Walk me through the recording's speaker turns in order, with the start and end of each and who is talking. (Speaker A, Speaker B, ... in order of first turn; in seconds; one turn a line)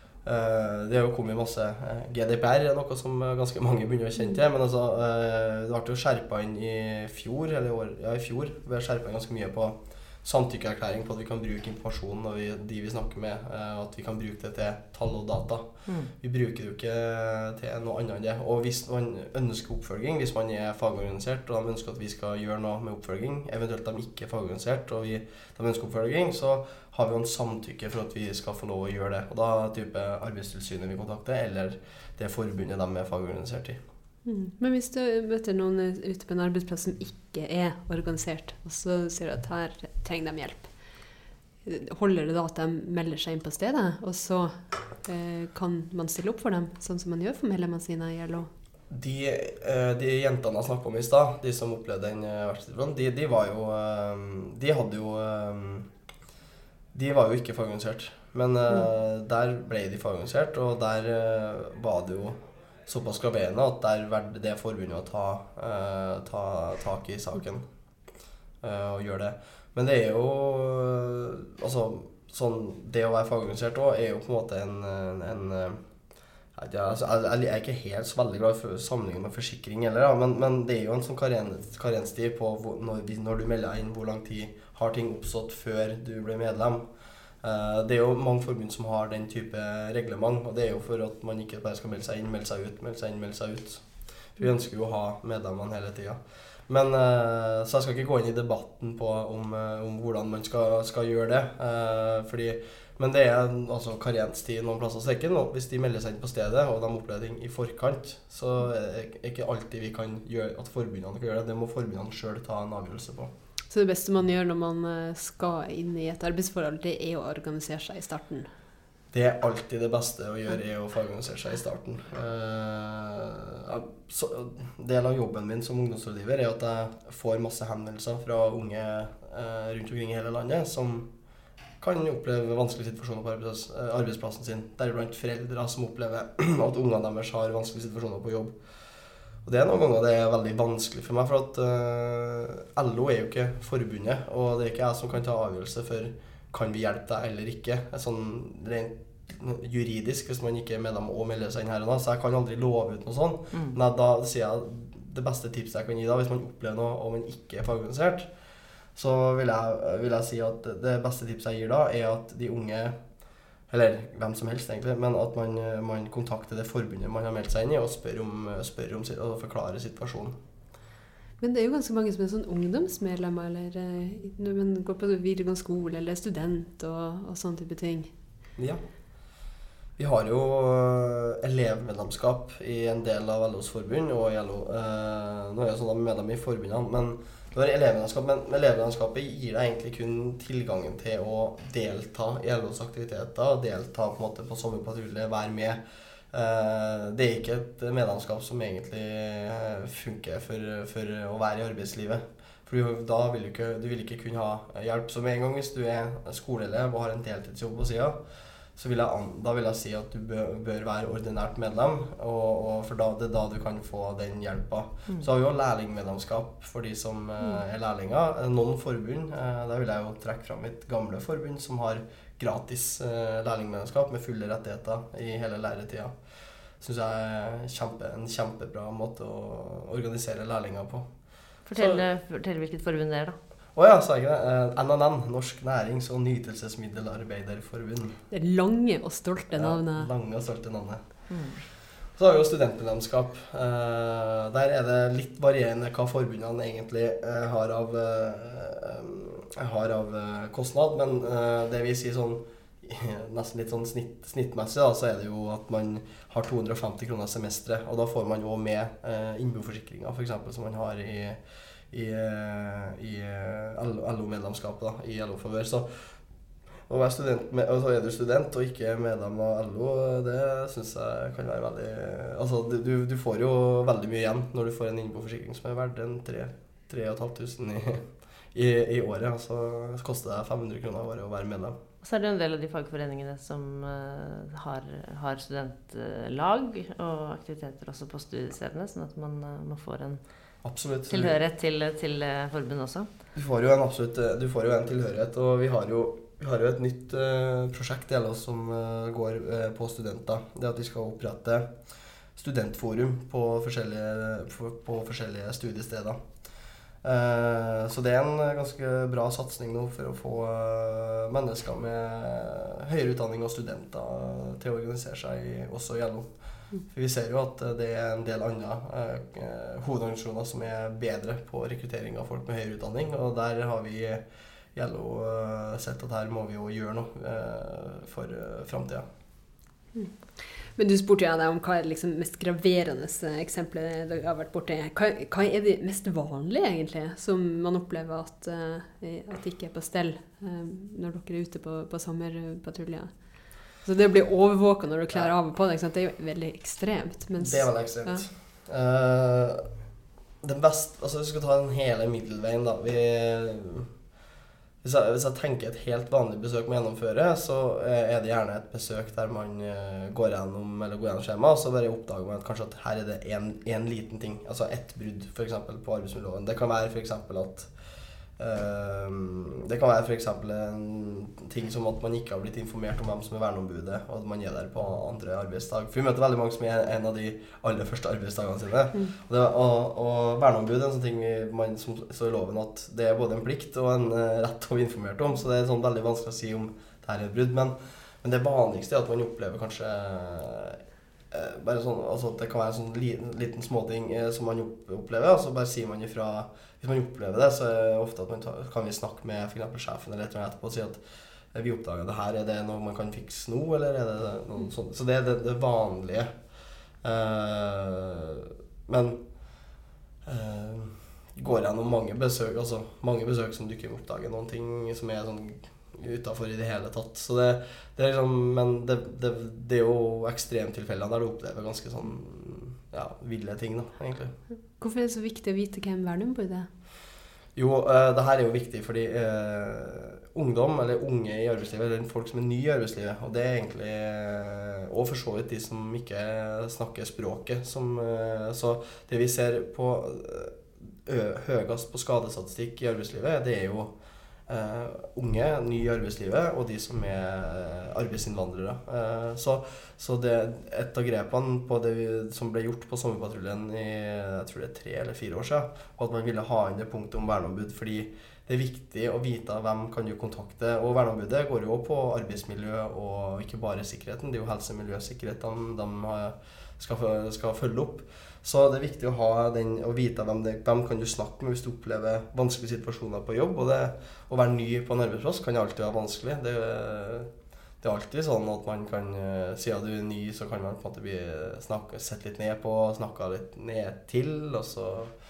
Speaker A: 0.2-15.7
Speaker A: 16.2-33.8
Speaker B: 34.2-40.7
Speaker B: 41.6-48.5
Speaker A: 48.9-55.9
Speaker A: 56.9-67.7
Speaker A: 68.6-75.8
Speaker A: 76.5-86.9
Speaker A: 87.4-113.3
Speaker B: 113.7-118.5
Speaker A: 119.1-131.1
Speaker A: 131.8-138.6
Speaker A: 139.4-158.3
Speaker A: 158.9-163.0
Speaker A: 163.7-170.4
Speaker B: 171.4-178.1
Speaker A: 178.6-178.8
Speaker A: 180.0-195.8
Speaker A: 196.3-208.2
Speaker A: 208.8-226.2
Speaker A: 226.8-231.1
Speaker C: 231.7-233.4
Speaker A: 231.7-232.0
Speaker A: 233.7-238.2
Speaker B: 238.3-240.1
Speaker A: 239.5-241.3
Speaker C: 241.3-241.6
Speaker A: 242.2-261.4
Speaker A: 261.9-266.0
Speaker A: 266.9-281.8
Speaker C: 282.0-290.2
Speaker A: 290.6-291.4
Speaker C: 291.1-293.1
Speaker A: 293.4-301.7
Speaker A: 302.4-306.2
Speaker A: 307.0-324.2
Speaker A: 324.7-329.0
Speaker B: 330.8-348.2
Speaker A: 347.4-349.7
Speaker A: 350.4-353.9
Speaker A: 354.8-367.7
Speaker A: 368.4-401.0
Speaker A: 401.5-406.3
Speaker A: 407.0-409.2
Speaker A: 410.2-424.3
Speaker B: 424.8-426.7
Speaker A: 427.5-443.9
Speaker A: 444.5-477.3
Speaker A: 477.8-485.1